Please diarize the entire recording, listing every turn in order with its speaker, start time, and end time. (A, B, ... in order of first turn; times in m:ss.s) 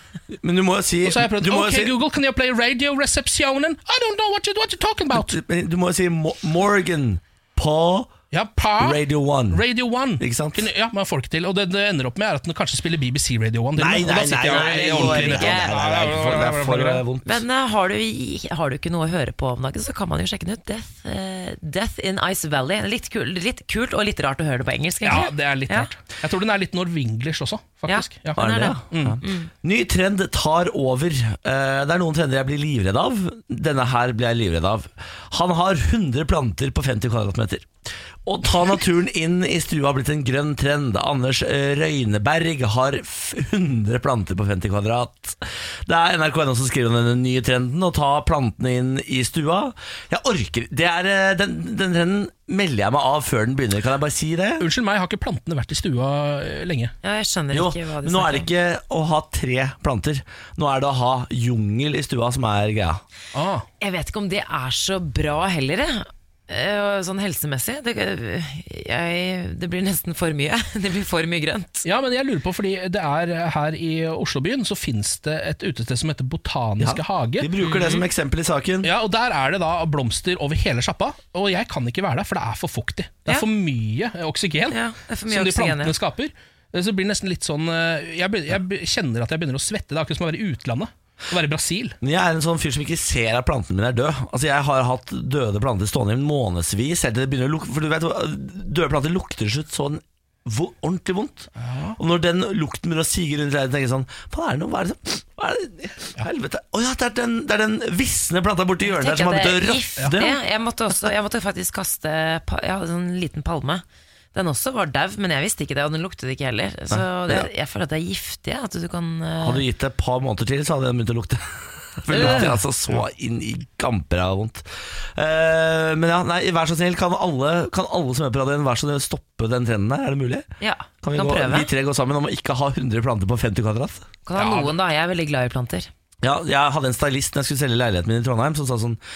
0:00.3-0:01.9 A
0:01.0-0:05.4 B
0:05.1-0:08.1 A
0:08.3-0:17.0 B
0:08.8-0:09.6 A
0:10.2-0:10.7 A
0:13.8-0:17.4 A
0:14.3-0:15.8 C
0:17.2-0:25.9 C
0:25.0-0:29.2 B
0:27.9-0:29.5 C
0:28.4-0:37.7 A
0:38.2-0:54.7 A
0:54.6-0:56.9 B
0:57.0-0:58.5 C
0:57.5-1:03.0 A
1:03.3-1:03.6 B
1:03.8-1:11.8 C
1:11.8-1:17.9 B
1:16.8-1:18.9 A
1:17.6-1:18.0 C
1:18.8-1:32.0 B
1:24.7-1:25.9 C
1:32.0-1:50.4 A
1:41.6-1:42.0 B
1:48.8-1:59.6 C
1:56.9-1:57.5 A
1:59.4-2:10.5 A
2:02.1-2:03.0 B
2:02.1-2:02.5 C
2:10.6-2:11.7 C
2:11.0-2:14.1 A
2:14.2-2:15.9 C
2:14.3-2:14.7 B
2:16.2-2:19.0 A